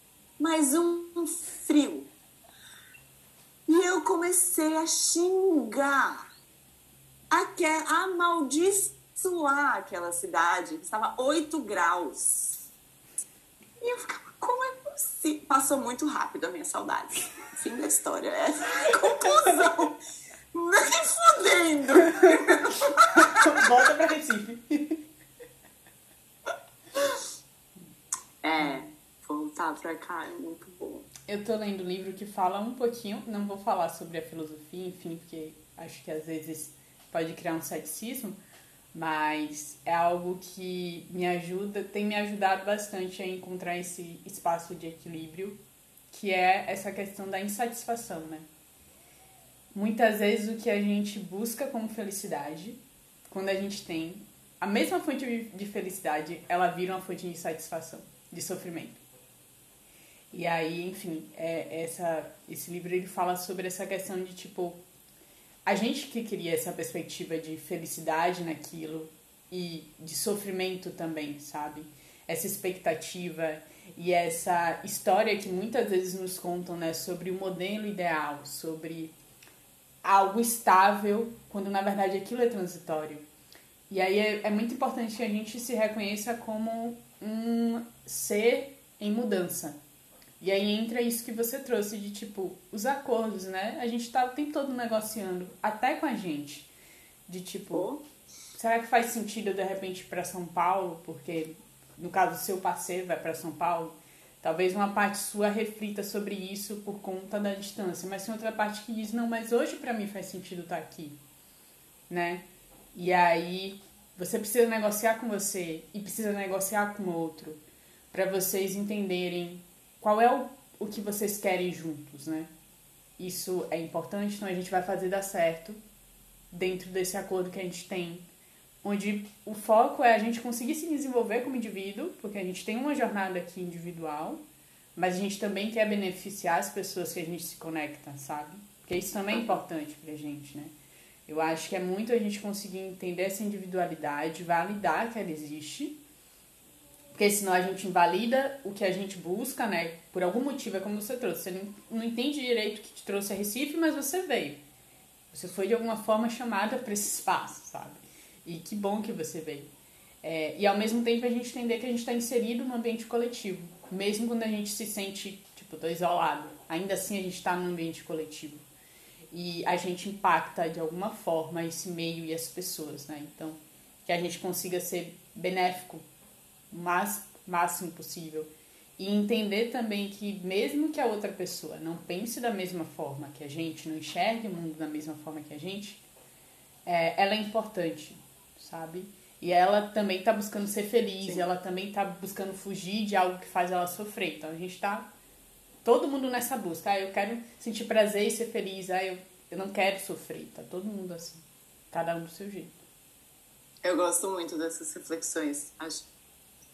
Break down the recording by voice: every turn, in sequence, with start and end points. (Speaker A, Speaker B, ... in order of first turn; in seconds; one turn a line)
Speaker A: 0.4-2.1
Speaker A: 3.7-6.2
Speaker A: 7.3-12.6
Speaker A: 13.8-19.9
Speaker B: 19.4-19.6
Speaker A: 20.5-23.7
Speaker B: 23.1-25.0
Speaker A: 28.4-31.1
Speaker B: 28.6-28.9
Speaker B: 31.3-38.4
Speaker B: 38.9-48.5
Speaker B: 49.7-59.0
Speaker B: 60.3-64.8
Speaker B: 65.7-79.1
Speaker B: 80.0-83.3
Speaker B: 83.9-89.8
Speaker B: 90.4-96.7
Speaker B: 97.3-97.9
Speaker A: 97.7-98.0
Speaker B: 98.5-111.2
Speaker B: 112.1-122.5
Speaker B: 123.2-125.8
Speaker B: 126.5-128.3
Speaker B: 128.8-134.4
Speaker B: 134.9-140.7
Speaker A: 139.3-139.6
Speaker B: 141.3-146.0
Speaker B: 147.1-154.6
Speaker B: 155.3-159.7
Speaker B: 160.2-168.6
Speaker B: 169.3-176.1
Speaker B: 176.7-186.0
Speaker B: 186.8-195.1
Speaker B: 195.8-202.8
Speaker A: 203.8-206.1